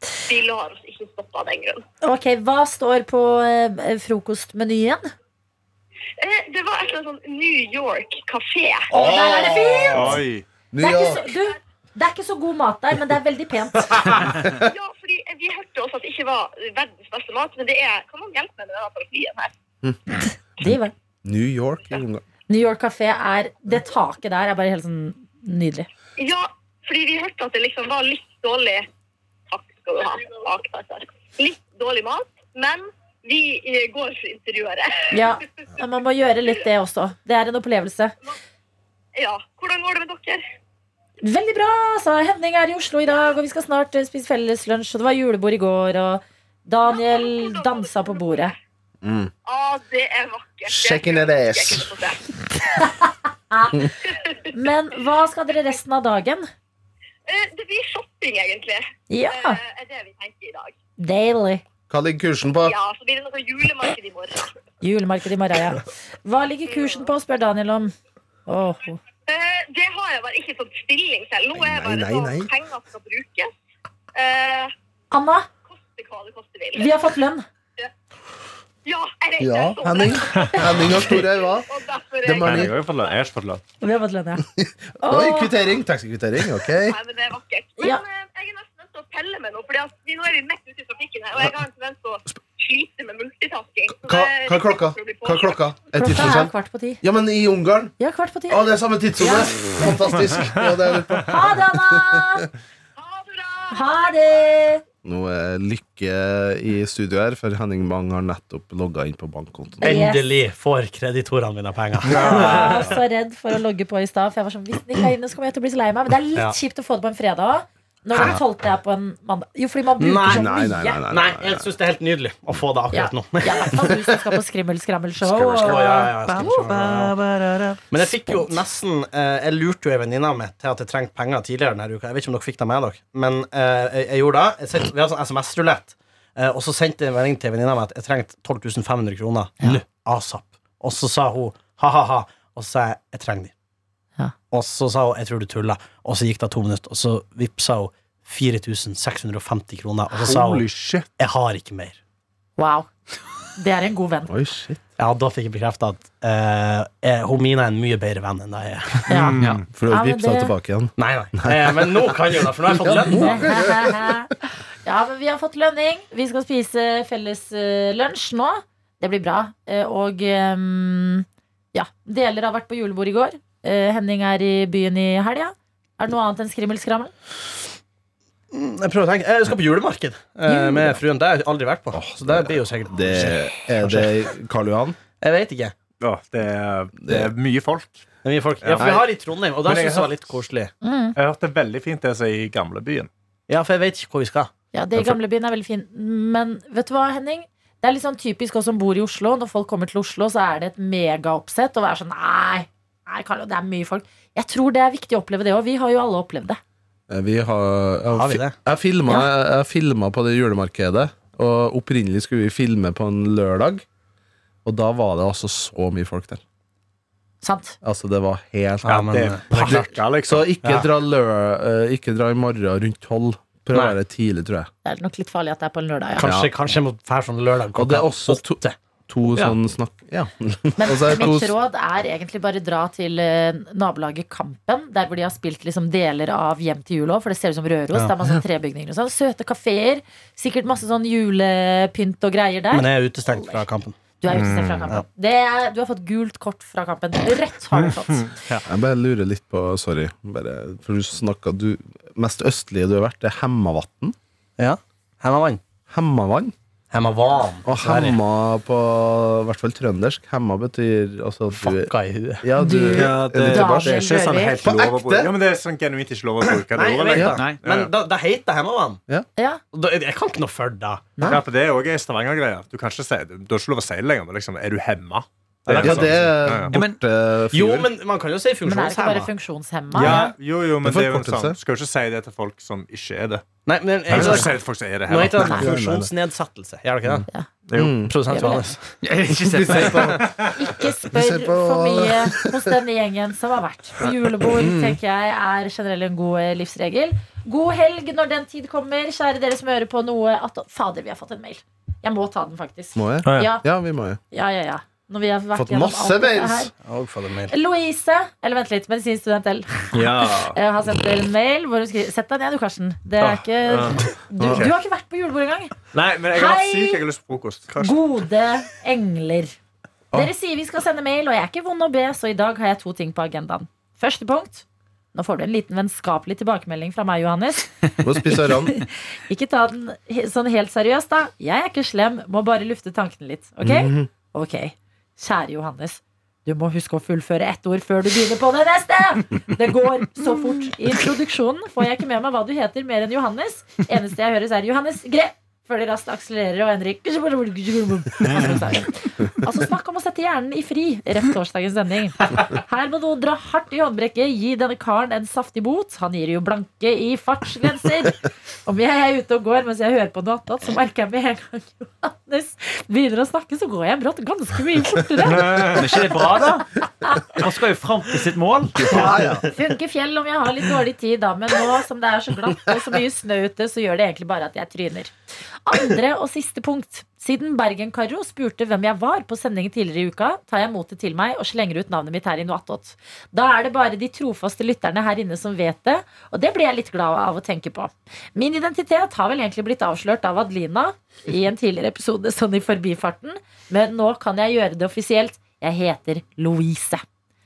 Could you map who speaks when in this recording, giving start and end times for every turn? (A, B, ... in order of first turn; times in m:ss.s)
0:00.3-0:01.8 A
0:02.0-0:05.1 B
0:06.2-0:08.9 A
0:08.9-0:10.2 B
0:09.0-0:10.2 C
0:09.9-0:10.5 D
0:10.7-0:11.2 C
0:10.8-0:14.1 B
0:11.0-0:11.5 A
0:14.6-0:19.5 A
0:20.1-0:20.9 B
0:21.2-0:22.2 C
0:22.5-0:25.9 B
0:26.2-0:28.9 A
0:29.5-0:35.3 A
0:35.1-0:38.1 B
0:39.2-0:40.4 A
0:41.2-0:48.6 B
0:46.9-0:48.6 A
0:49.0-0:49.3 C
0:49.5-0:52.2 A
0:50.7-0:51.9 C
0:52.7-0:53.9 B
0:54.1-0:54.4 A
0:54.5-0:56.5 B
0:57.3-1:00.7 A
0:59.1-0:59.6 B
1:01.0-1:01.6 B
1:01.9-1:02.8 C
1:02.6-1:04.5 A
1:04.8-1:07.9 B
1:06.7-1:07.0 A
1:08.5-1:09.0 B
1:09.3-1:13.5 A
1:11.5-1:12.5 C
1:14.1-1:14.7 A
1:15.1-1:15.5 B
1:15.7-1:17.0 A
1:16.7-1:17.4 B
1:18.8-1:22.7 A
1:19.4-1:21.7 C
1:20.4-1:20.9 B
1:22.2-1:22.8 C
1:22.4-1:23.6 D
1:23.8-1:24.4 B
1:24.6-1:27.0 C
1:25.0-1:25.7 B
1:26.7-1:35.6 A
1:27.8-1:28.0 B
1:34.0-1:37.9 C
1:36.0-1:37.0 B
1:38.0-1:40.0 B
1:38.5-1:42.2 C
1:41.2-1:42.5 B
1:43.0-1:44.5 A
1:43.7-1:44.8 B
1:45.0-1:49.9 C
1:49.8-1:50.4 B
1:49.8-1:53.0 E
1:52.1-1:52.8 D
1:52.1-2:01.0 B
2:00.0-2:00.5 E
2:00.3-2:01.7 C
2:01.1-2:04.0 E
2:02.9-2:06.5 B
2:05.2-2:06.0 C
2:05.6-2:07.2 E
2:06.3-2:08.4 F
2:07.9-2:23.5 E
2:24.5-2:30.7 E
2:30.2-2:31.1 D
2:31.2-2:32.0 E
2:32.6-2:32.9 B
2:33.6-2:34.3 B
2:34.3-2:34.8 C
2:35.0-2:39.1 E
2:39.1-2:40.5 B
2:39.1-2:39.6 D
2:39.4-2:39.6 F
2:39.7-2:44.1 C
2:41.0-2:43.5 E
2:43.1-2:44.3 B
2:44.8-2:57.1 B
2:58.5-3:04.2 E
3:00.5-3:01.0 B
3:01.9-3:05.0 C
3:05.2-3:05.8 E
3:06.0-3:08.1 D
3:07.0-3:07.3 C
3:08.2-3:10.7 E
3:08.6-3:09.1 D
3:09.6-3:10.3 D
3:10.8-3:11.2 B
3:11.2-3:13.1 D
3:13.5-3:14.5 E
3:14.7-3:26.6 B
3:27.1-3:33.8 C
3:28.1-3:28.6 E
3:34.6-3:36.4 C
3:37.4-3:37.8 B
3:37.8-3:44.7 C
3:38.8-3:39.9 E
3:38.9-3:40.6 D
3:40.6-3:40.9 E
3:44.8-3:46.3 B
3:46.2-3:48.8 E
3:46.2-3:46.5 C
3:47.7-3:51.5 C
3:50.8-4:03.6 B
4:02.7-4:04.0 E
4:04.2-4:08.3 B
4:04.3-4:04.9 D
4:08.7-4:14.2 C
4:14.6-4:15.6 E
4:15.9-4:16.5 C
4:16.9-4:18.2 E
4:17.6-4:24.0 C
4:21.6-4:22.4 E
4:22.6-4:24.7 B
4:22.9-4:27.9 D
4:24.6-4:25.3 C
4:26.5-4:29.0 E
4:27.3-4:27.6 F
4:29.7-4:31.1 E
4:31.3-4:36.7 D
4:35.7-4:36.0 E
4:35.8-4:37.9 C
4:36.7-4:37.0 F
4:37.5-4:39.3 E
4:38.6-4:40.3 B
4:39.9-4:43.4 D
4:40.8-4:41.6 C
4:43.7-4:47.3 E
4:44.1-4:45.6 D
4:44.2-4:44.4 B
4:45.4-4:46.1 C
4:45.4-4:45.7 B
4:47.7-4:48.0 D
4:47.8-4:48.1 C
4:48.1-4:48.9 E
4:48.3-4:48.6 B
4:49.0-4:50.2 F
4:49.5-4:50.4 C
4:49.9-4:50.5 D
4:50.5-5:03.6 B
4:51.0-4:52.8 C
4:54.5-4:55.0 C
5:03.0-5:04.2 C
5:03.2-5:03.5 D
5:04.3-5:06.7 B
5:05.6-5:06.7 C
5:06.7-5:07.5 E
5:07.5-5:15.8 B
5:09.9-5:10.6 D
5:13.2-5:14.0 D
5:14.4-5:14.7 C
5:15.9-5:17.9 D
5:16.3-5:17.0 B
5:17.8-5:19.6 B
5:20.1-5:27.7 B
5:28.0-5:28.8 C
5:29.3-6:05.8 B
5:33.6-5:34.1 C
6:05.3-6:05.8 D
6:05.7-6:09.1 F
6:07.0-6:07.4 B
6:08.8-6:09.5 C
6:08.9-6:15.1 B
6:15.7-6:37.0 B